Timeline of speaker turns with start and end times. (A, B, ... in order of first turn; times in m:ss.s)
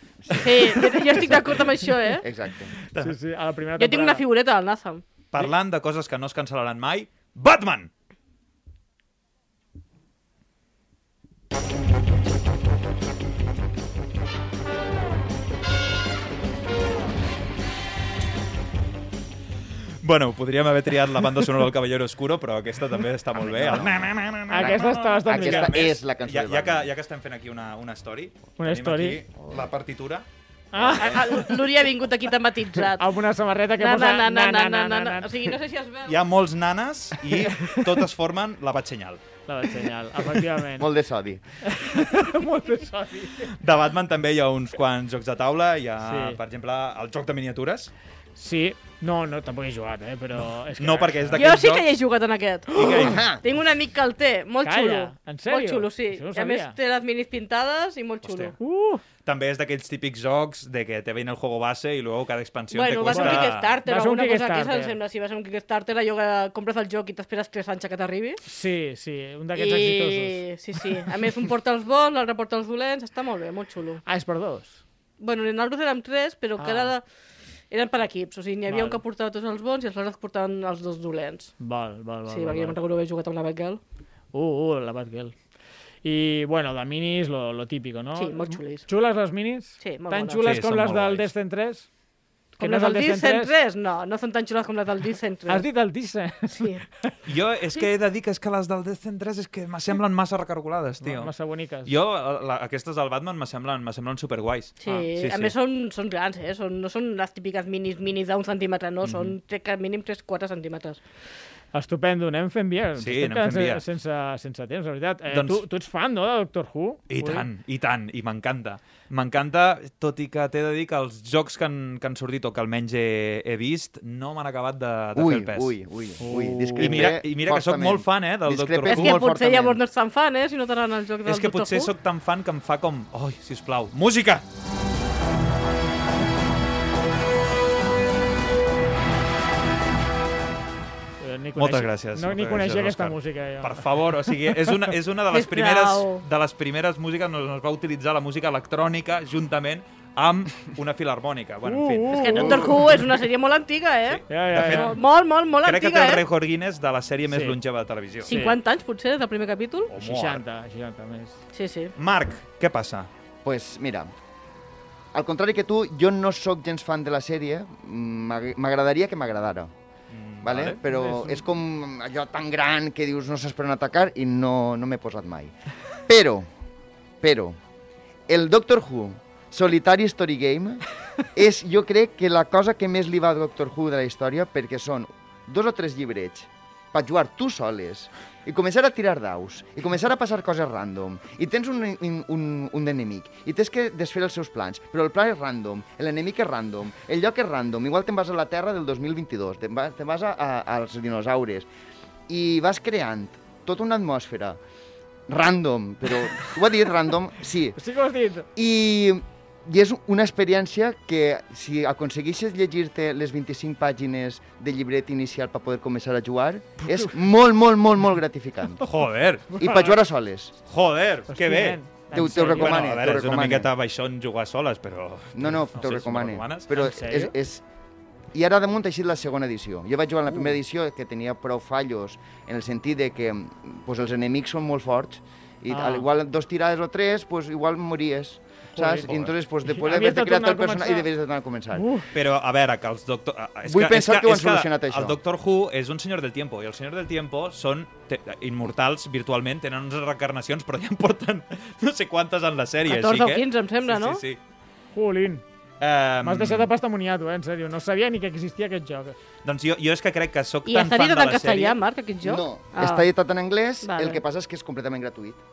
0:00.2-0:00.5 A
0:00.3-0:02.2 B
0:02.2-0:02.7 A
0:02.9-0:03.2 C
0:02.9-0:04.2 D
0:03.8-0:05.0 B
0:05.3-0:07.9 C
0:20.0-0:30.2 C
0:23.4-0:24.0 A
0:24.5-0:25.8 D
0:24.6-0:26.9 A
0:28.6-0:29.2 D
0:30.7-0:31.5 D
0:30.8-0:31.1 C
0:31.0-0:33.1 B
0:33.0-0:35.3 D
0:33.8-0:36.2 B
0:36.0-0:39.2 C
0:37.5-0:37.9 D
0:39.5-0:40.9 D
0:40.8-0:41.4 A
0:41.6-0:43.5 D
0:43.5-0:47.9 C
0:46.0-0:46.4 D
0:48.4-0:51.5 D
0:50.8-0:51.9 C
0:51.3-0:58.6 B
0:52.7-0:53.2 C
0:52.9-0:53.4 A
0:54.6-0:56.8 D
0:58.2-0:58.5 C
0:58.6-0:59.0 D
0:59.2-1:03.8 C
1:02.7-1:08.4 B
1:03.1-1:05.0 D
1:08.4-1:11.1 D
1:09.5-1:14.0 B
1:14.0-1:14.8 D
1:15.2-1:17.0 B
1:16.6-1:16.9 D
1:17.7-1:21.5 B
1:18.7-1:19.0 D
1:21.6-1:22.8 D
1:22.3-1:23.8 B
1:24.3-1:25.3 D
1:26.0-1:31.9 D
1:28.2-1:28.9 B
1:29.8-1:30.5 B
1:30.4-1:31.3 C
1:32.6-1:33.5 D
1:32.6-1:35.7 B
1:35.5-1:37.1 D
1:37.2-1:41.3 C
1:41.0-1:41.9 D
1:41.8-1:45.5 C
1:44.8-1:51.0 B
1:49.0-1:49.4 C
1:51.7-1:57.4 D
1:53.0-1:53.8 C
1:55.3-1:55.6 C
1:57.1-2:05.8 C
2:05.1-2:09.8 A
2:06.2-2:07.1 D
2:06.8-2:09.2 C
2:08.8-2:11.9 B
2:11.2-2:14.4 C
2:21.2-2:24.7 D
2:21.6-2:32.8 C
2:25.3-2:26.2 B
2:31.6-2:32.9 D
2:32.1-2:36.2 B
2:34.0-2:35.0 C
2:34.3-2:35.0 D
2:35.6-2:38.4 C
2:37.3-2:37.6 D
2:38.2-2:39.9 B
2:38.3-2:38.6 D
2:39.9-2:40.4 C
2:39.9-2:41.4 D
2:41.5-2:41.9 B
2:42.0-2:43.1 C
2:43.4-2:44.1 A
2:45.1-2:49.7 A
2:50.1-2:50.8 C
2:50.4-2:55.5 A
2:50.8-2:51.4 D
2:56.1-2:56.5 A
2:57.2-2:57.6 A
2:58.3-3:00.8 A
3:01.3-3:21.7 A
3:22.3-3:24.6 A
3:25.3-3:27.8 A
3:27.8-3:28.5 D
3:28.5-3:38.8 A
3:36.8-3:37.1 D
3:38.8-3:39.8 C
3:39.6-3:40.5 A
3:39.6-3:39.9 D
3:40.6-3:46.7 C
3:41.3-3:42.9 D
3:42.1-3:43.7 A
3:45.3-3:47.6 A
3:46.7-3:47.3 D
3:48.3-4:01.9 A
3:55.7-3:56.1 D
3:58.7-3:59.1 D
3:59.0-3:59.3 C
3:59.6-4:01.1 D
4:01.7-4:02.1 D
4:02.1-4:14.4 C
4:03.6-4:05.2 A
4:12.8-4:14.2 B
4:14.9-4:15.4 D
4:15.8-4:16.7 C
4:16.2-4:19.1 D
4:19.4-4:21.8 C
4:20.7-4:23.0 B
4:22.2-4:25.4 A
4:23.8-4:24.2 B